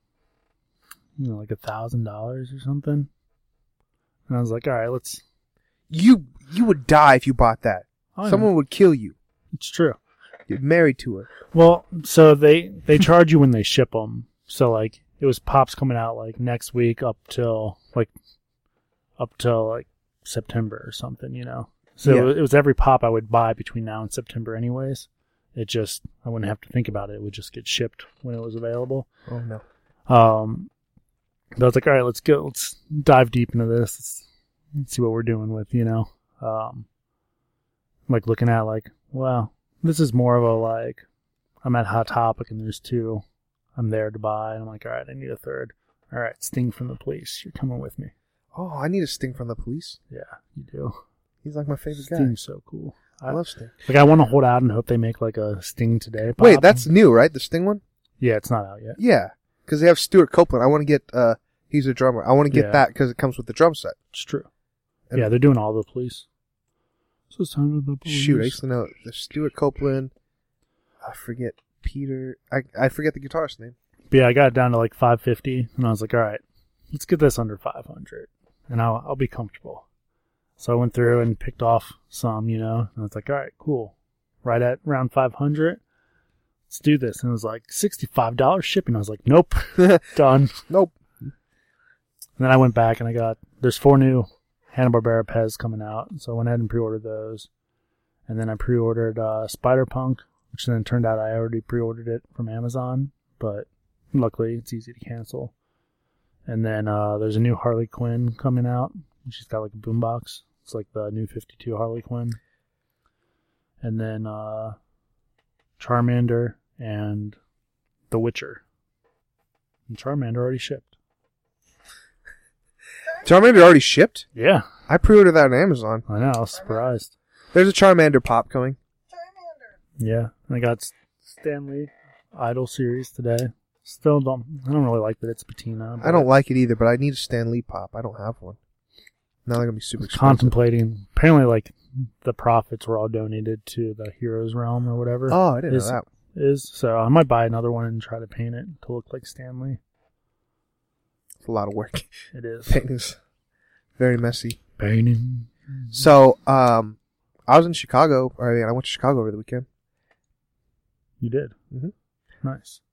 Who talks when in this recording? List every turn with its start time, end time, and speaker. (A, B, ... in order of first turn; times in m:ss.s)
0:01.2-0:03.1 A
0:04.3-0:05.2 A
0:05.9-0:09.2 B
0:08.2-0:08.5 A
0:09.5-0:10.0 A
0:10.5-0:11.3 B
0:11.5-0:18.1 A
0:19.2-0:29.1 A
0:22.1-0:22.3 B
0:29.3-0:29.6 B
0:30.1-0:30.7 A
0:31.6-0:34.2 A
0:34.8-0:36.9 A
0:38.1-0:41.0 A
0:41.6-0:43.2 A
0:43.8-0:48.1 A
0:48.5-0:50.0 B
0:50.1-0:51.0 A
0:51.4-0:52.3 B
0:52.0-0:56.9 A
0:53.3-0:53.7 B
0:56.4-0:57.8 B
0:58.2-0:59.0 A
0:59.0-1:04.0 B
1:02.5-1:02.8 A
1:04.1-1:04.5 A
1:05.1-1:06.2 A
1:07.3-1:08.6 A
1:08.1-1:10.1 B
1:11.0-1:13.8 B
1:14.1-1:19.8 A
1:20.6-1:25.8 A
1:26.7-1:30.6 A
1:29.8-1:30.0 B
1:32.4-1:37.5 A
1:38.3-1:45.5 A
1:46.5-1:52.4 A
1:53.8-1:54.8 A
1:55.8-1:57.4 A
1:58.1-1:58.6 A
1:59.9-2:00.9 A
2:03.2-2:04.3 B
2:04.4-2:04.7 A
2:04.9-2:06.0 B
2:06.1-2:07.1 A
2:07.5-2:08.8 B
2:10.0-2:16.3 A
2:16.0-2:18.6 B
2:19.5-2:20.5 B
2:20.0-2:29.8 A
2:25.3-2:26.0 B
2:31.4-2:32.1 B
2:32.3-2:32.8 A
2:32.7-2:33.2 B
2:34.0-2:34.6 B
2:34.8-2:36.0 A
2:35.9-2:37.0 B
2:37.5-2:39.7 B
2:41.2-2:41.6 A
2:42.4-2:42.8 A